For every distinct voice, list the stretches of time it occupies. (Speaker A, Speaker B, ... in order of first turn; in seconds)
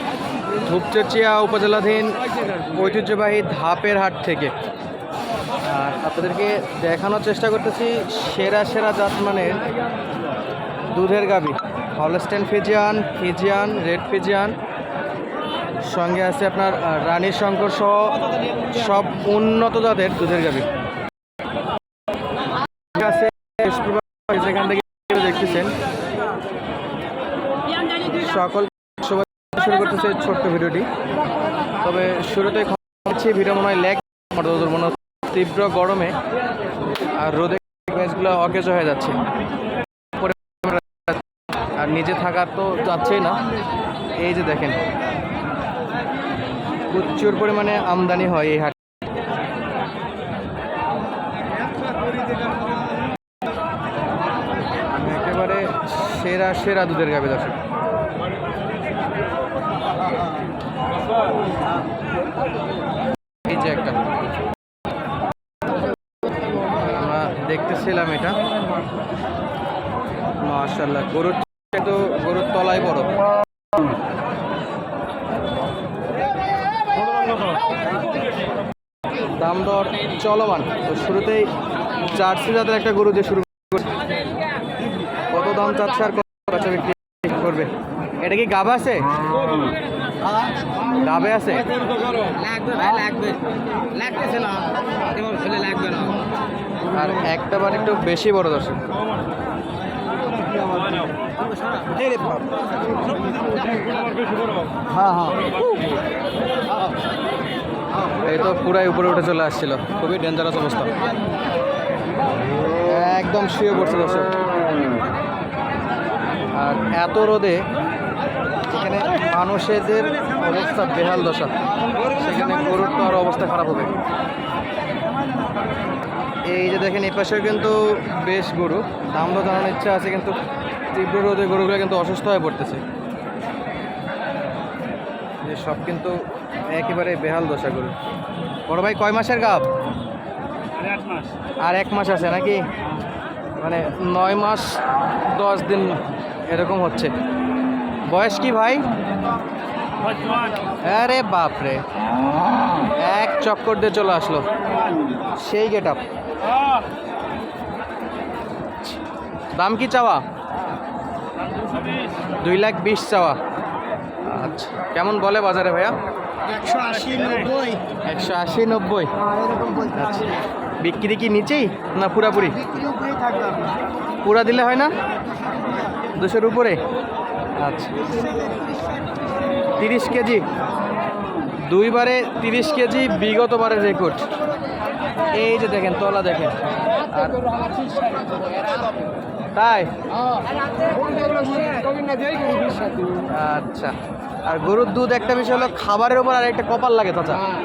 Speaker A: 0.6-4.5, 5.6-9.6, 10.9-14.6, 15.9-18.2, 18.7-20.7, 22.9-25.7, 28.1-30.9, 31.8-36.2, 37.1-39.2, 40.2-41.2, 41.8-43.4, 44.2-44.8, 46.9-48.8, 55.0-57.6, 63.5-64.0, 66.8-68.4, 70.4-73.1, 79.4-81.5, 82.1-83.9, 85.3-89.1, 91.0-91.7, 96.9-98.8, 104.9-105.4, 108.2-110.9, 112.8-114.4, 116.5-117.7, 118.7-121.5, 122.0-123.9, 126.5-130.4, 130.9-132.8, 135.4-136.2, 136.7-137.9, 138.7-139.7, 141.6-142.7, 143.6-147.1, 148.1-148.8, 150.8-151.8, 153.0-154.4, 155.3-156.0, 159.5-160.2, 162.4-163.4, 164.2-165.9, 168.1-169.1, 169.8-172.6, 174.2-174.9, 176.2-176.8, 177.6-178.0, 179.8-180.4, 181.7-184.3, 185.3-186.6, 187.1-187.4, 189.6-189.9, 193.3-193.9, 194.5-197.5
Speaker B: 92.3-93.4, 94.0-94.6, 95.2-96.1, 102.0-102.3, 166.5-167.8, 169.6-169.9, 172.8-173.6, 187.5-188.9, 190.8-193.3